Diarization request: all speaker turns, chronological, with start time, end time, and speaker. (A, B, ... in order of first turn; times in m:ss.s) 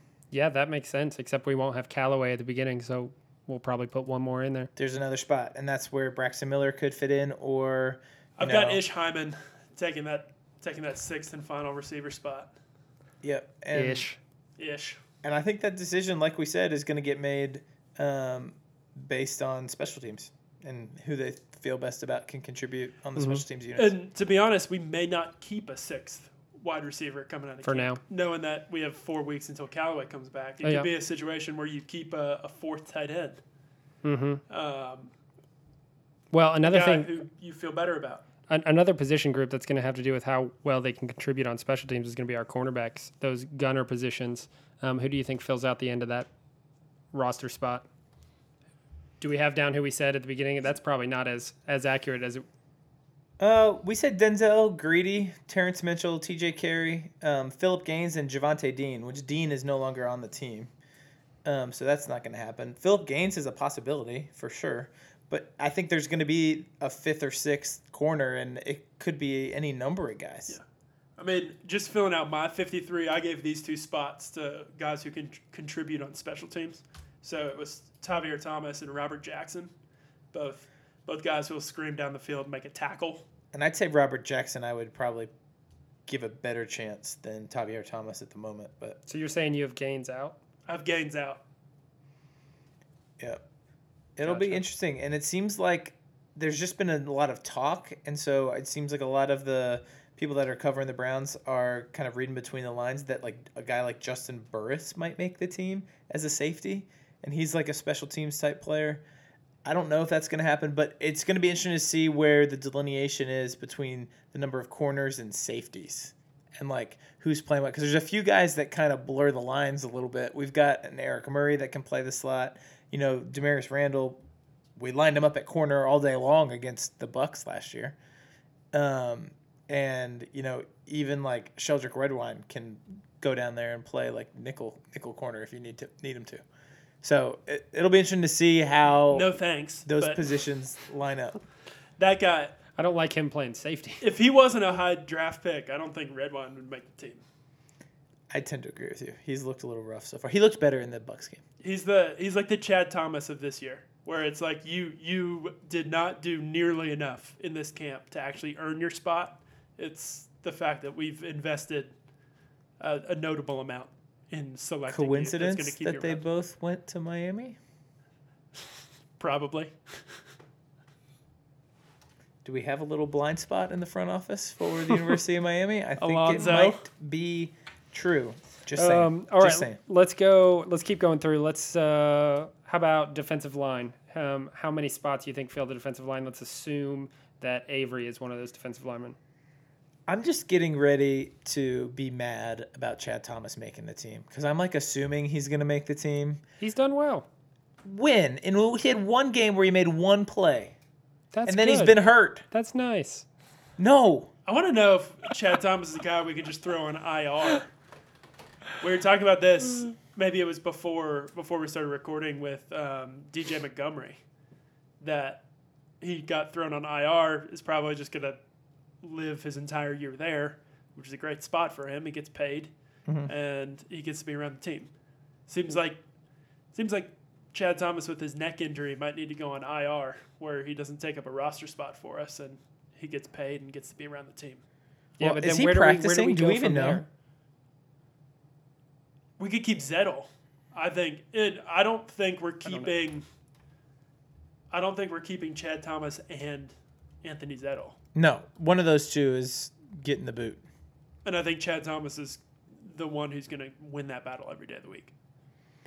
0:00.3-0:04.7 A
0:04.8-0:08.8 B
0:08.4-0:12.5 C
0:13.2-0:14.1 B
0:13.7-0:14.2 A
0:14.6-0:15.0 C
0:15.2-0:23.9 B
0:23.2-0:23.4 A
0:23.8-0:33.4 C
0:27.6-0:28.0 A
0:30.6-0:30.9 A
0:34.0-0:34.4 A
0:34.5-0:35.1 C
0:36.3-0:37.1 A
0:36.6-0:38.2 C
0:38.5-0:46.3 A
0:47.1-0:47.8 A
0:49.2-0:52.5 A
0:53.4-1:00.7 B
1:01.4-1:10.6 B
1:11.2-1:19.7 C
1:20.3-1:23.2 C
1:23.5-1:25.3 B
1:26.1-1:29.0 B
1:29.1-1:30.4 A
1:30.7-1:31.4 C
1:34.2-1:49.0 B
1:34.2-1:34.6 A
1:49.6-2:04.2 B
2:04.8-2:08.0 B
2:08.7-2:16.4 B
2:17.0-2:19.3 B
2:19.1-2:20.2 C
2:19.8-2:21.4 B
2:22.0-2:22.6 C
2:22.8-2:24.0 A
2:24.0-2:27.2 C
2:28.3-2:31.4 B
2:31.6-2:41.9 C
2:42.8-2:46.2 C
2:44.9-2:47.6 B
2:49.2-2:50.2 C
2:52.4-2:59.8 B
2:56.0-2:56.8 C
2:58.8-3:09.2 A
3:10.1-3:16.4 B
3:16.6-3:17.3 A
3:17.8-3:20.7 B
3:21.3-3:23.3 A
3:21.5-3:22.4 B
3:23.8-3:24.3 B
3:24.5-3:27.7 C
3:28.8-3:34.2 C
3:35.0-3:35.4 C
3:36.0-3:38.4 C
3:39.0-3:42.7 C
3:43.3-3:44.9 C
3:45.5-3:46.0 C
3:46.7-3:54.6 C
3:55.2-3:57.1 A
3:55.2-3:57.0 B
3:59.4-4:03.2 C
4:02.6-4:02.9 A
4:04.7-4:08.0 C
4:08.2-4:10.6 B
4:11.2-4:15.1 C